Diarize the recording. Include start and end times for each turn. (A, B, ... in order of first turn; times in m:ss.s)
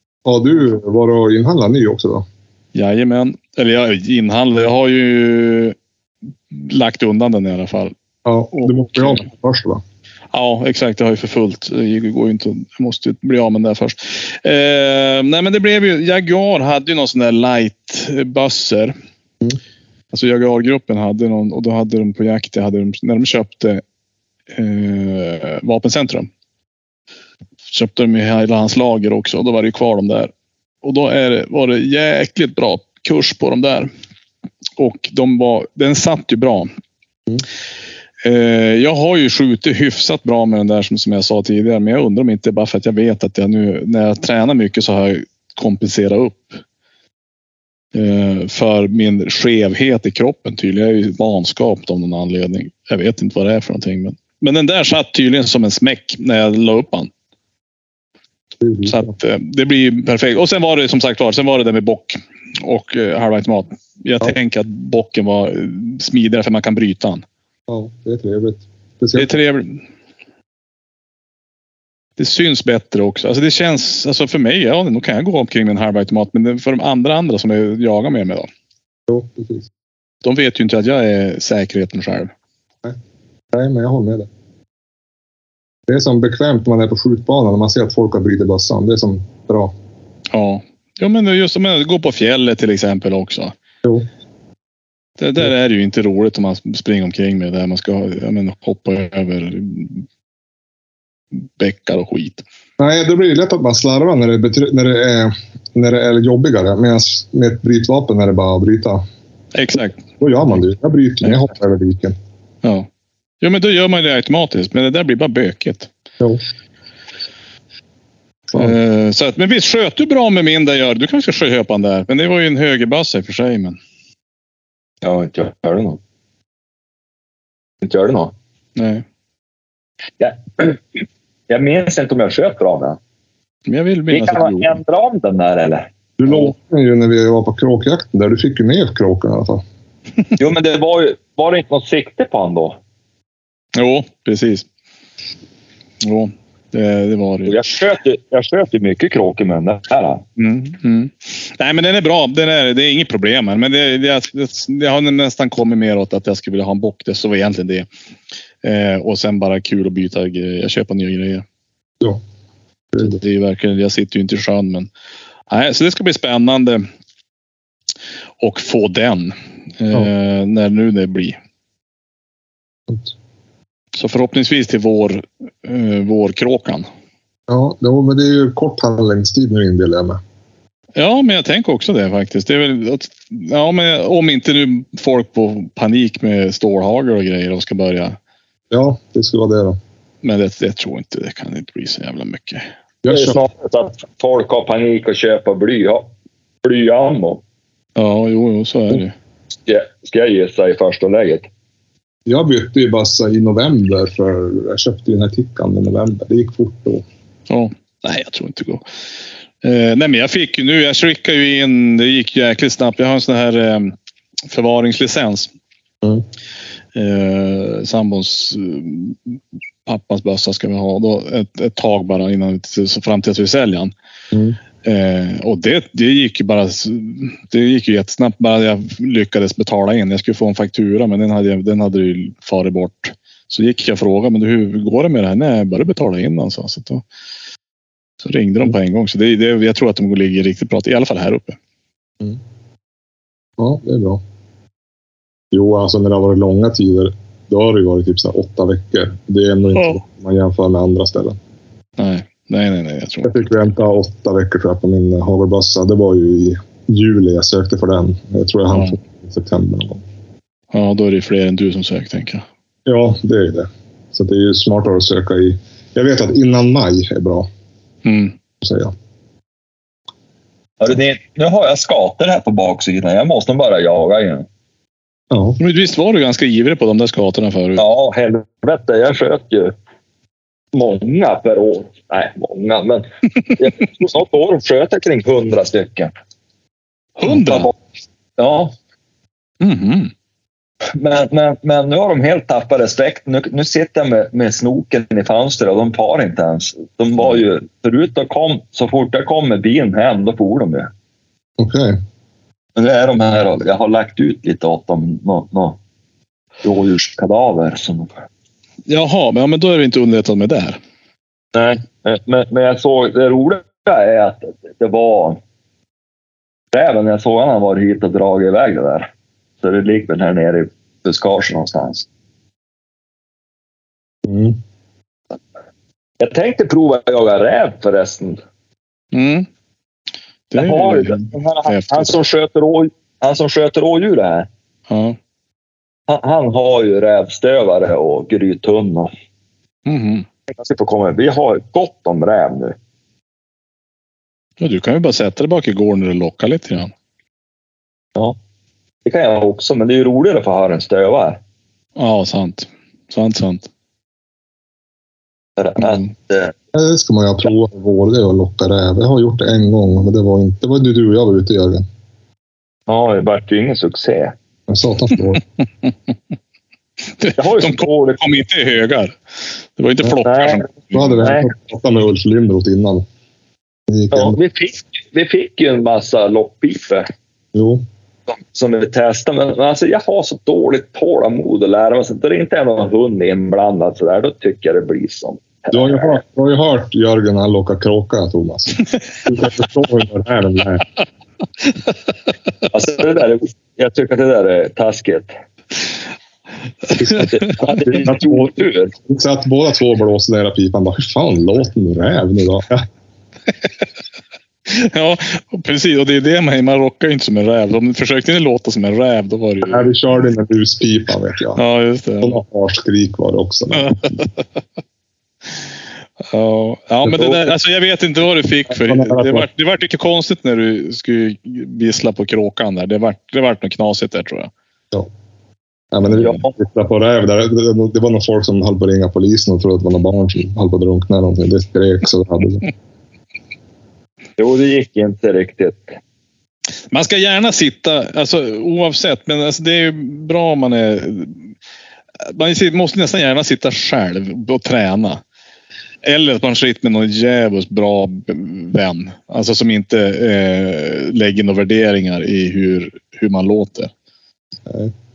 0:00.2-0:02.2 A
0:02.7-0:05.8 B
0:06.5-0:07.9 B
0:08.2-0:09.8 A
0:08.5-0:09.2 B
0:10.3-0:18.9 B
0:20.1-0:23.8 B
0:24.5-0:26.3 B
0:27.7-0:30.3 B
0:30.8-0:33.9 B
0:34.8-0:36.7 B
0:38.2-0:46.6 B
0:47.9-0:57.1 B
0:58.6-0:59.1 A
0:58.8-1:07.2 B
1:07.7-1:09.3 A
1:09.2-1:09.8 B
1:12.2-1:18.5 B
1:19.1-1:19.7 A
1:20.2-1:22.3 B
1:23.5-1:24.3 A
1:25.9-1:29.7 A
1:30.3-1:33.5 B
1:35.2-1:40.0 B
1:41.3-1:42.4 B
1:42.8-1:49.0 A
1:49.5-1:50.0 B
1:50.2-1:52.2 A
1:53.4-1:55.9 B
1:58.5-2:03.8 B
2:05.0-2:06.0 C
2:07.8-2:08.3 C
2:08.8-2:09.0 B
2:10.2-2:13.0 C
2:13.7-2:14.8 B
2:14.1-2:15.8 C
2:16.2-2:19.6 A
2:20.4-2:22.8 C
2:23.8-2:24.6 B
2:26.0-2:27.6 B
2:27.5-2:30.2 C
2:30.4-2:37.9 B
2:38.6-2:41.4 B
2:42.9-2:43.2 A
2:43.0-2:44.9 B
2:45.5-2:46.8 B
2:48.4-2:51.4 B
2:52.9-2:53.1 A
2:54.0-2:56.8 B
2:57.5-3:00.2 A
3:01.0-3:08.2 B
3:08.7-3:09.8 A
3:10.2-3:12.6 B
3:13.0-3:13.4 A
3:13.1-3:16.1 C
3:16.6-3:17.4 C
3:18.0-3:19.1 B
3:19.7-3:21.5 C
3:22.2-3:27.0 A
3:27.5-3:28.8 B
3:29.6-3:33.9 B
3:34.5-3:35.5 B
3:36.9-3:43.9 B
3:44.3-3:44.6 A
3:44.8-3:57.0 B
3:58.2-4:01.6 B
4:03.6-4:04.2 A
4:05.5-4:11.4 A
4:12.0-4:13.7 B
4:13.2-4:20.0 A
4:18.7-4:19.0 B
4:20.7-4:22.4 B
4:22.8-4:27.5 A
4:28.0-4:28.3 B
4:28.6-4:28.9 A
4:30.8-4:34.5 C
4:35.3-4:35.6 A
4:35.6-4:37.8 B
4:37.8-4:39.7 C
4:40.7-4:46.1 C
4:47.2-4:47.7 B
4:47.2-4:47.7 C
4:48.4-4:48.7 C
4:49.6-4:50.1 B
4:50.9-5:00.9 C
5:01.6-5:02.0 A
5:02.8-5:05.8 C
5:06.6-5:08.1 C
5:08.9-5:10.8 B
5:11.5-5:15.4 C
5:16.7-5:19.1 C
5:19.6-5:22.0 C
5:24.2-5:24.6 A
5:26.2-5:28.4 C
5:29.1-5:29.5 B
5:30.5-5:32.2 B
5:30.6-5:34.5 C
5:34.9-5:35.2 B
5:36.1-5:39.1 C
5:39.8-5:40.3 B
5:40.5-5:42.8 C
5:44.6-5:46.9 B
5:49.0-5:51.4 C
5:52.0-5:53.7 B
5:55.6-5:56.5 C
5:55.8-5:56.1 B
5:56.7-6:01.8 A
6:02.9-6:04.3 C
6:04.7-6:05.4 A
6:07.2-6:09.2 B
6:07.4-6:08.3 C
6:09.8-6:11.1 B
6:10.2-6:11.5 C
6:10.9-6:13.1 A
6:13.9-6:14.4 A
6:14.1-6:17.1 C
6:17.5-6:17.8 A
6:18.3-6:26.2 C
6:25.7-6:30.8 A
6:32.7-6:35.3 C
6:36.9-6:37.5 B
6:37.0-6:42.8 A
6:37.0-6:38.9 C
6:44.7-6:49.9 B
6:49.6-6:51.6 A
6:51.6-6:52.4 B
6:52.2-6:54.2 A
6:53.7-6:54.2 B
6:56.3-7:04.5 B
6:57.0-6:57.4 A
6:58.7-6:59.4 A
7:05.9-7:12.7 A
7:06.1-7:06.5 C
7:14.4-7:16.0 C
7:16.9-7:21.5 B
7:22.3-7:25.2 B
7:26.0-7:33.9 B
7:34.7-7:34.9 A